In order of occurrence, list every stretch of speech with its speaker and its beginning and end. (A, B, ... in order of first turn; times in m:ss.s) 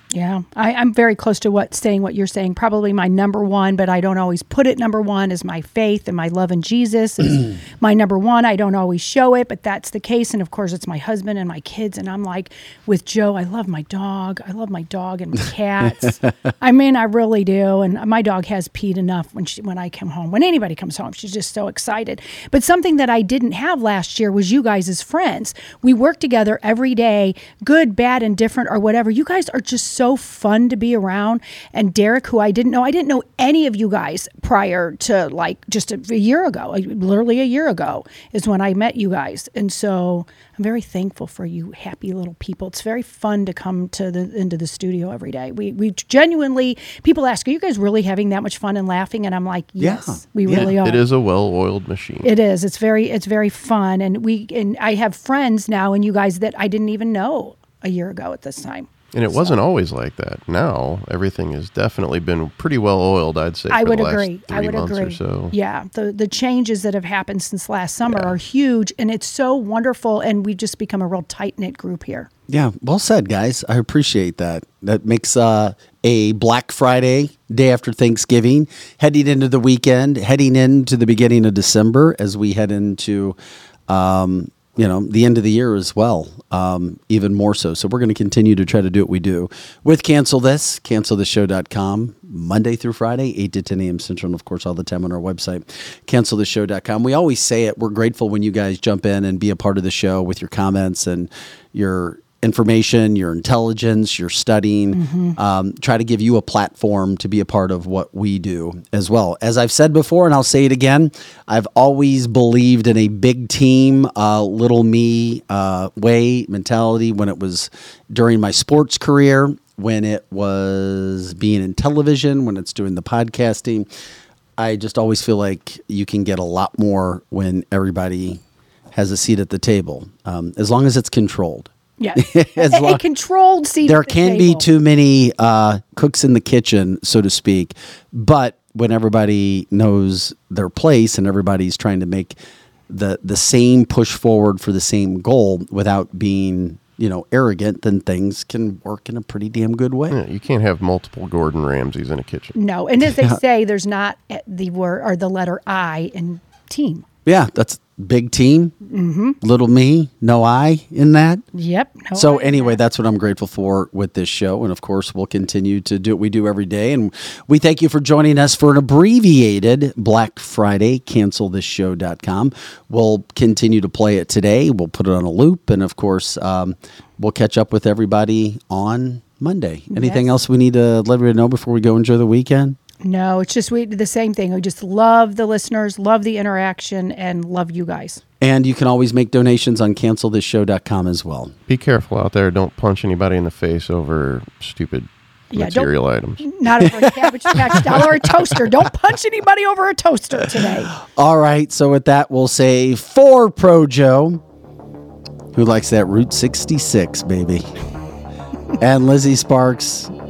0:00.1-0:51.0 A
0:49.8-0:50.7 B
0:50.5-0:52.3 C
0:52.2-0:59.6 A
0:59.1-1:05.6 C
1:03.7-1:12.3 A
1:08.1-1:08.3 C
1:12.5-1:23.4 B
1:23.9-2:03.9 B
1:44.9-1:45.4 A
2:04.6-2:08.4 B
2:08.9-2:13.0 B
2:12.0-2:14.6 A
2:13.8-2:22.4 B
2:22.9-2:30.2 B
2:30.1-2:32.6 C
2:32.6-2:37.0 A
2:33.0-2:33.4 B
2:37.3-2:38.8 B
2:38.9-2:39.4 A
2:39.4-2:41.4 B
2:41.5-2:42.8 A
2:42.2-3:02.8 B
2:59.9-3:00.2 A
3:03.0-3:08.2 A
3:08.4-3:11.5 B
3:11.7-3:16.5 C
3:15.5-3:20.9 A
3:16.9-3:18.1 B
3:21.0-3:24.4 B
3:25.5-3:27.6 B
3:28.8-3:30.1 B